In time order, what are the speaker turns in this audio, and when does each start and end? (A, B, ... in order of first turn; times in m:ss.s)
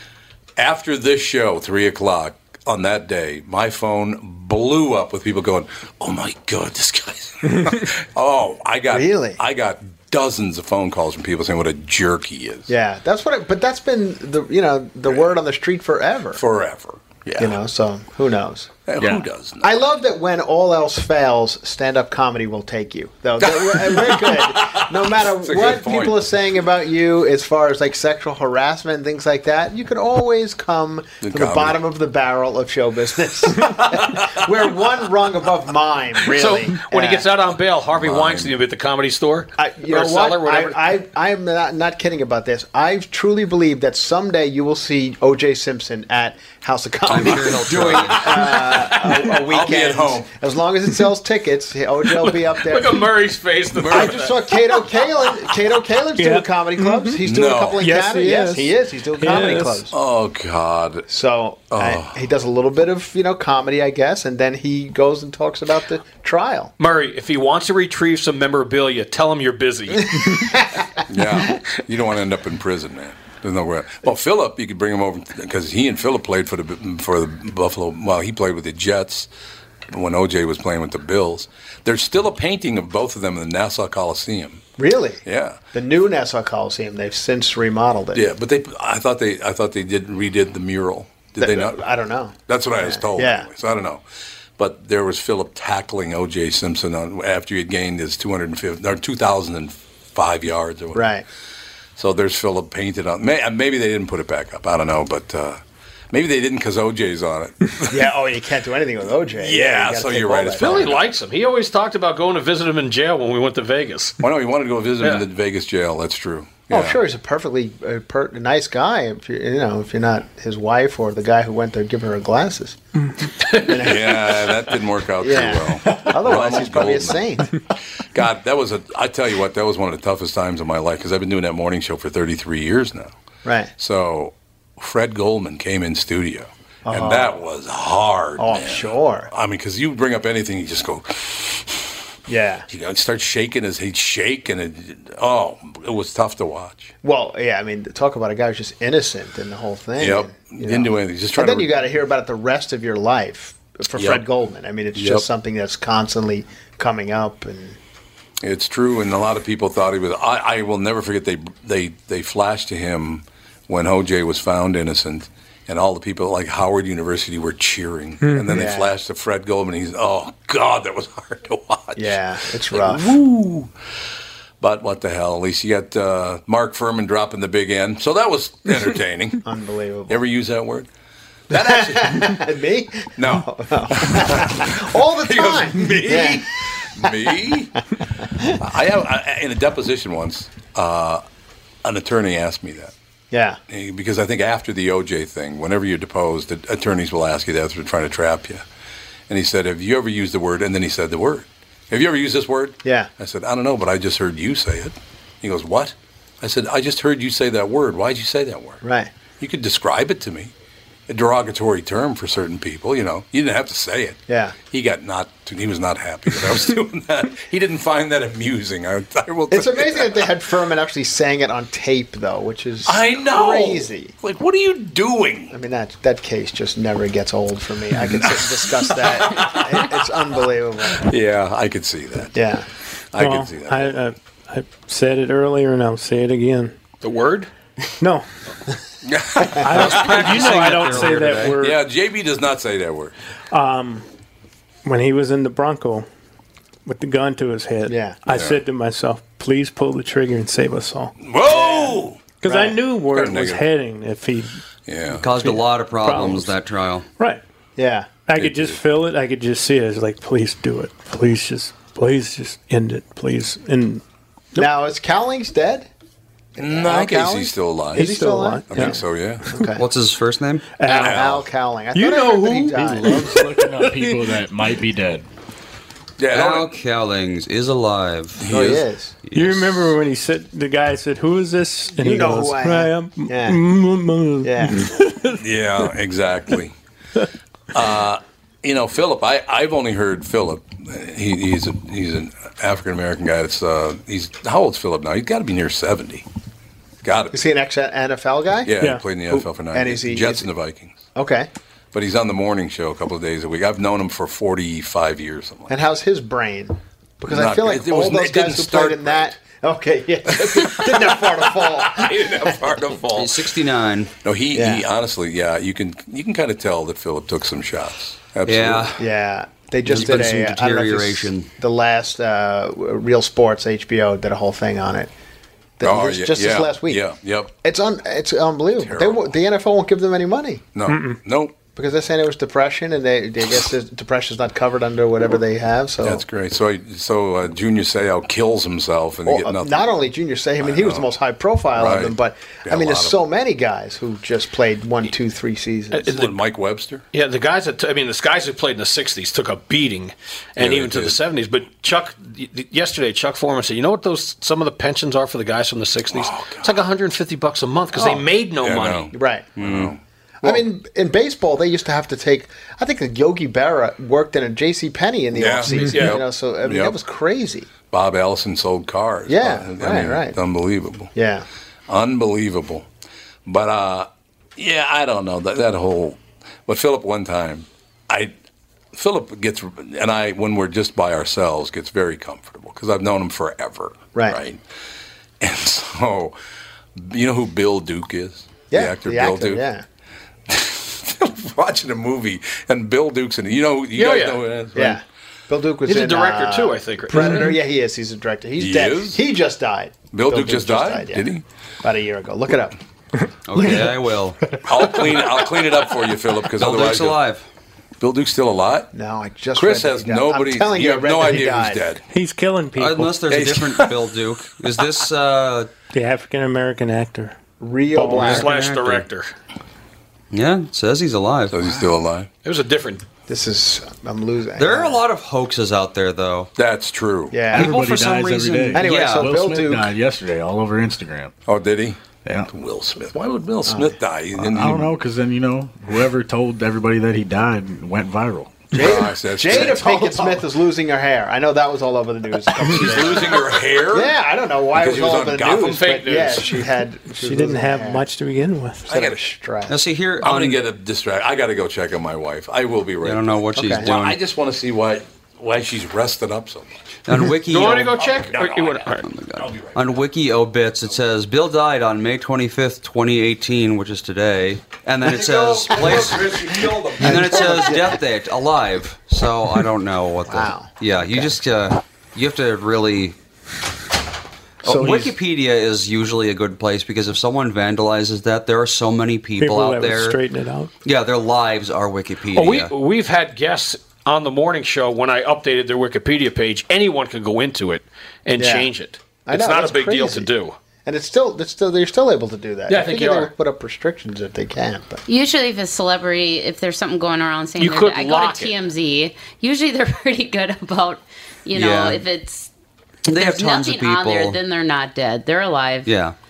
0:00.6-0:12.7 A
0:08.9-0:09.4 B
0:12.7-0:16.4 B
0:16.3-0:17.6 A
0:17.4-0:18.7 B
0:18.9-0:19.8 A
0:19.0-0:19.2 C
0:19.6-0:37.3 B
0:23.4-0:26.2 A
0:31.2-0:31.8 A
0:33.9-0:34.2 A
0:36.3-0:40.8 D
0:37.9-0:38.6 A
0:39.6-0:53.1 B
0:47.1-0:48.6 E
0:49.0-0:50.3 A
0:52.1-0:54.8 D
0:53.7-0:54.3 A
0:53.8-0:59.9 B
0:56.2-0:57.2 F
0:57.2-0:57.9 A
0:57.8-0:59.8 F
0:59.9-1:01.0 A
1:01.1-1:06.7 B
1:01.7-1:02.2 A
1:06.8-1:10.5 D
1:10.0-1:11.0 B
1:11.1-1:19.3 A
1:19.9-1:24.6 A
1:24.8-1:25.2 B
1:25.2-1:25.6 A
1:25.7-1:28.3 B
1:28.1-1:31.8 A
1:31.4-1:33.5 B
1:32.5-1:34.0 A
1:34.6-1:41.1 A
1:40.9-1:41.2 B
1:42.0-1:48.0 A
1:47.9-1:51.0 B
1:49.4-1:51.1 A
1:50.6-1:54.2 D
1:54.2-1:57.0 A
1:56.7-2:02.8 B
2:03.6-2:04.5 B
2:03.7-2:07.3 A
2:05.2-2:07.5 B
2:08.1-2:13.1 A
2:13.4-2:13.7 B
2:13.8-2:21.9 A
2:16.8-2:17.4 B
2:18.4-2:19.3 B
2:22.3-2:22.6 B
2:22.7-2:26.9 A
2:27.0-2:37.8 B
2:30.0-2:31.7 A
2:34.0-2:34.2 A
2:34.9-2:35.2 A
2:38.4-2:52.2 A
2:48.5-2:48.9 B
2:52.0-2:53.1 B
2:52.7-2:53.7 A
2:54.6-2:59.4 A
2:59.4-3:00.2 B
3:00.1-3:00.9 A
3:01.5-3:02.4 A
3:01.5-3:06.4 B
3:03.2-3:07.8 A
3:08.6-3:11.2 A
3:11.8-3:12.9 A
3:13.3-3:13.6 B
3:13.7-3:18.6 A
3:19.3-3:28.8 A
3:22.8-3:23.1 B
3:28.8-3:29.1 B
3:29.4-3:30.5 A
3:31.1-3:40.2 A
3:34.3-3:34.6 B
3:39.5-3:44.1 B
3:42.8-3:45.5 A
3:45.5-3:51.0 B
3:48.0-3:49.8 A
3:51.0-3:52.3 A
3:52.3-3:52.7 B
3:53.1-3:53.9 A
3:53.2-3:56.7 F
3:57.0-3:57.5 D
3:58.0-3:58.2 F
3:59.0-4:00.8 A
3:59.6-4:01.8 F
3:59.8-4:01.6 E
4:01.5-4:03.1 A
4:03.5-4:04.0 F
4:04.8-4:06.1 F
4:06.8-4:11.1 F
4:07.8-4:08.2 B
4:08.3-4:08.6 A
4:11.2-4:12.3 A
4:11.5-4:12.8 B
4:12.4-4:14.6 F
4:13.1-4:13.6 A
4:14.9-4:15.3 A
4:15.2-4:17.1 E
4:15.4-4:16.5 F
4:17.8-4:18.2 B
4:18.2-4:24.0 F
4:18.4-4:18.8 A
4:24.6-4:25.9 B
4:26.6-4:29.8 B
4:26.6-4:29.4 A
4:27.9-4:28.9 F
4:29.8-4:30.7 E
4:30.8-4:31.1 F
4:30.8-4:33.2 B
4:31.0-4:31.4 A
4:31.9-4:34.2 F
4:32.7-4:35.2 C
4:36.2-4:36.7 A
4:36.3-4:38.5 E
4:38.4-4:38.8 A
4:38.5-4:39.2 B
4:39.3-4:39.7 E
4:39.3-4:45.4 F
4:41.9-4:43.7 B
4:44.4-4:44.9 B
4:45.4-4:46.7 A
4:47.7-4:56.2 A
4:57.0-4:57.4 A
4:57.3-5:00.5 B
4:58.6-5:01.0 A
5:01.1-5:01.5 B
5:01.9-5:05.8 A
5:05.7-5:12.6 B
5:07.3-5:09.3 A
5:10.4-5:13.4 A
5:13.1-5:14.1 E
5:14.2-5:18.9 A
5:14.5-5:14.8 B
5:18.4-5:19.0 E
5:19.0-5:25.1 B
5:19.8-5:21.5 E
5:25.8-5:27.0 B
5:25.8-5:27.5 A
5:27.6-5:30.7 B
5:28.8-5:29.3 A
5:30.7-5:31.5 A
5:30.9-5:31.2 F
5:31.7-5:36.2 B
5:36.0-5:39.9 A
5:39.2-5:46.1 B
5:40.6-5:41.1 A
5:41.8-5:43.2 A
5:45.9-5:46.3 D
5:46.0-5:47.0 A
5:47.1-5:59.1 D
5:50.6-5:51.2 A
5:56.1-5:56.8 A
5:58.6-6:00.6 A
5:59.1-5:59.9 B
6:00.4-6:07.7 B
6:05.3-6:07.0 A
6:05.8-6:06.2 D
6:07.9-6:11.1 A
6:09.3-6:10.4 B
6:11.1-6:11.4 B
6:11.9-6:12.9 A
6:13.4-6:18.3 A
6:18.9-6:24.6 A
6:24.1-6:24.4 B
6:25.4-6:26.4 A
6:27.0-6:29.6 A
6:28.7-6:29.8 B
6:30.5-6:35.0 A
6:33.9-6:34.4 D
6:34.7-6:41.3 B
6:35.8-6:37.6 D
6:38.6-6:39.2 A
6:40.1-6:41.4 A
6:41.8-6:42.8 B
6:43.5-6:44.4 E
6:44.6-6:47.2 A
6:46.6-6:47.4 E
6:48.0-6:48.9 A
6:48.9-6:51.9 B
6:49.6-6:52.0 A
6:52.1-6:53.2 F
6:52.8-6:55.7 E
6:53.3-6:53.9 A
6:55.9-6:57.4 F
6:57.6-6:58.5 B
6:57.9-6:58.2 F
6:58.1-6:59.3 D
6:58.2-6:59.0 E
7:00.3-7:01.6 E
7:01.5-7:02.3 A
7:02.4-7:03.0 D
7:03.3-7:05.0 B
7:04.6-7:06.5 E
7:06.6-7:07.4 A
7:07.3-7:07.8 B
7:07.5-7:09.3 E
7:07.5-7:11.3 C
7:08.7-7:09.9 B
7:11.5-7:14.9 A
7:12.2-7:12.5 C
7:13.7-7:14.0 B
7:14.4-7:18.7 C
7:18.7-7:28.1 B
7:18.7-7:20.4 A
7:22.6-7:24.1 A
7:24.7-7:25.9 A
7:25.7-7:26.5 D
7:27.1-7:28.8 F
7:28.8-7:29.8 B
7:28.9-7:29.2 A
7:29.7-7:30.6 E
7:30.2-7:36.9 A
7:33.0-7:34.2 E
7:33.6-7:33.9 B
7:37.0-7:38.0 E
7:37.4-7:39.0 D
7:38.0-7:40.0 A
7:39.0-7:53.2 E
7:45.0-7:47.6 A
7:45.7-7:46.0 B
7:47.0-7:48.0 B
7:50.3-7:51.3 B
7:54.6-8:00.2 E
7:54.7-7:55.1 C
7:59.4-8:00.7 F
8:00.8-8:02.7 E
8:02.3-8:10.6 D
8:08.4-8:10.3 B
8:10.8-8:15.0 B
8:12.7-8:13.3 D
8:15.0-8:22.5 G
8:17.6-8:18.6 D
8:21.5-8:22.0 E
8:23.0-8:24.4 E
8:23.1-8:25.9 G
8:25.8-8:26.1 E